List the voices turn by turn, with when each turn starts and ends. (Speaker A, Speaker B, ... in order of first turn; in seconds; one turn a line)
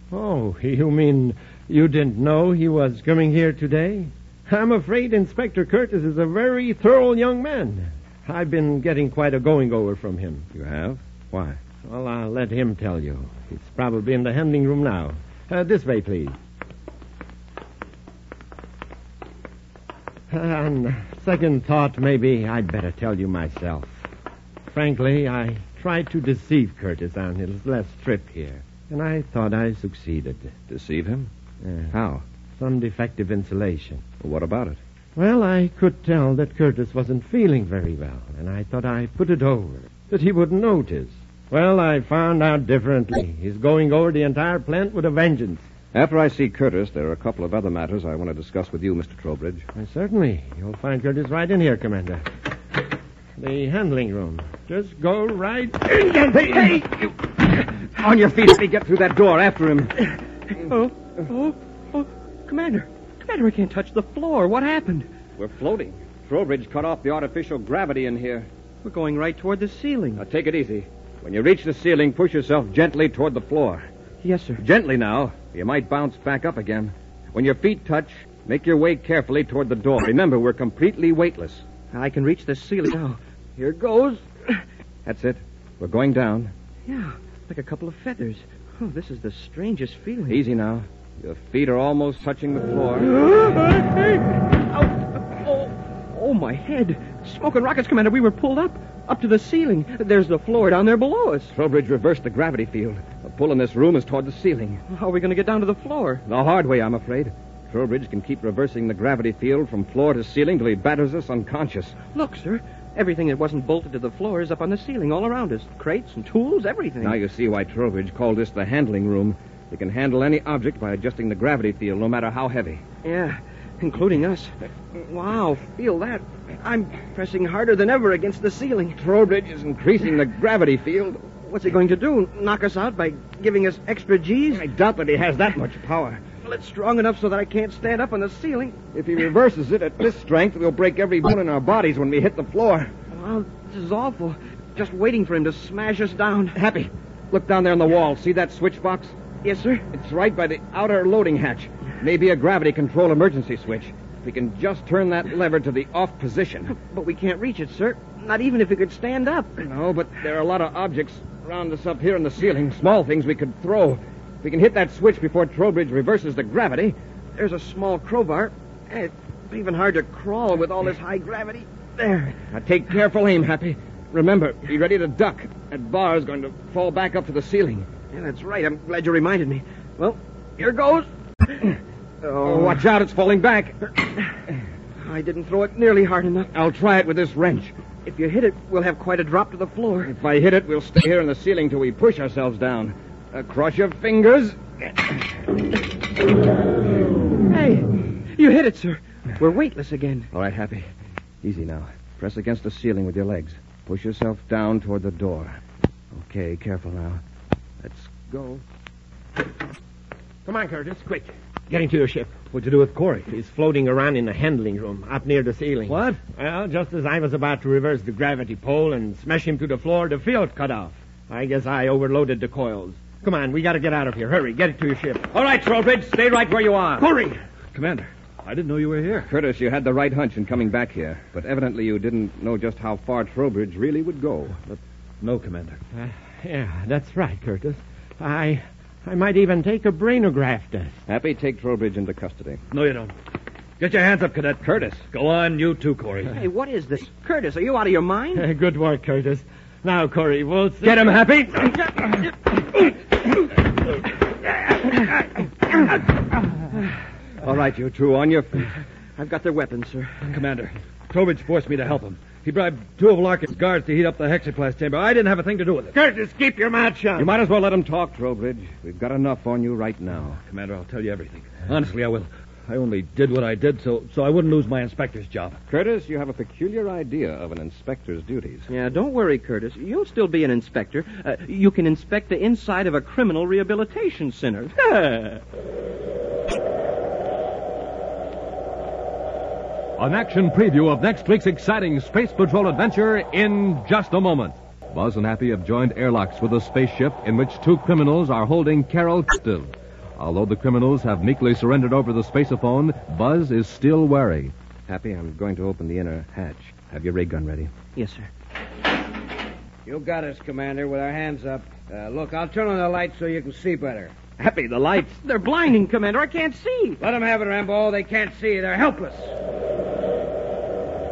Speaker A: 0.1-10.5
Speaker B: 10.5-11.6
Speaker A: 11.8-16.4
Speaker A: 20.3-24.0
Speaker A: 24.7-30.5
Speaker B: 30.7-31.3
Speaker A: 31.6-31.9
Speaker B: 31.9-32.2
Speaker A: 32.6-34.0
Speaker B: 34.2-34.8
Speaker A: 35.1-45.6
Speaker B: 45.9-49.7
Speaker A: 49.7-52.2
Speaker A: 53.4-56.8
Speaker B: 56.3-60.0
Speaker C: 60.5-65.1
Speaker B: 65.4-68.5
Speaker C: 68.8-70.2
Speaker B: 70.2-73.8
Speaker C: 74.2-74.6
Speaker B: 74.6-81.6
Speaker C: 81.9-84.6
Speaker B: 85.0-86.5
Speaker C: 86.9-90.4
Speaker B: 90.3-93.1
Speaker C: 93.0-101.5
Speaker B: 101.5-104.8
Speaker C: 104.9-106.2
Speaker B: 106.2-112.0
Speaker C: 112.1-117.2
Speaker B: 117.0-122.8
Speaker C: 123.0-129.0
Speaker B: 129.0-131.2
Speaker C: 131.4-134.7
Speaker B: 134.5-136.2
Speaker C: 136.4-138.8
Speaker B: 138.9-142.9
Speaker C: 143.1-146.6
Speaker B: 146.5-149.1
Speaker C: 149.4-149.8
Speaker B: 149.9-156.8
Speaker C: 156.7-159.5
Speaker B: 159.6-166.9
Speaker C: 167.3-172.4
Speaker B: 172.5-177.9
Speaker C: 178.1-182.8
Speaker B: 182.4-183.8
Speaker C: 185.0-186.5
Speaker B: 186.5-187.7
Speaker C: 188.0-190.1
Speaker B: 190.0-195.2
Speaker C: 197.5-200.3
Speaker B: 200.3-200.9
Speaker B: 201.4-205.6
Speaker B: 206.1-207.2
Speaker B: 207.8-208.6
Speaker A: 210.4-212.4
Speaker D: 212.5-213.3
Speaker A: 213.3-225.3
Speaker D: 215.9-216.2
Speaker D: 225.3-226.3
Speaker B: 225.4-227.0
Speaker A: 227.0-227.3
Speaker D: 227.7-229.3
Speaker B: 229.3-234.6
Speaker D: 234.7-235.8
Speaker A: 235.9-241.0
Speaker B: 241.1-242.6
Speaker D: 242.7-243.1
Speaker D: 243.8-246.3
Speaker B: 244.6-245.0
Speaker C: 246.3-248.4
Speaker A: 248.3-251.1
Speaker B: 250.8-252.1
Speaker B: 257.4-258.7
Speaker C: 259.2-260.2
Speaker D: 260.3-265.9
Speaker A: 265.9-267.3
Speaker B: 267.2-270.4
Speaker D: 270.5-275.6
Speaker B: 275.7-278.7
Speaker C: 278.7-285.4
Speaker E: 290.0-304.5
Speaker B: 304.9-307.7
Speaker C: 307.9-308.3
Speaker F: 309.8-314.1
Speaker B: 314.4-315.1
Speaker C: 315.1-317.0
Speaker F: 317.0-319.3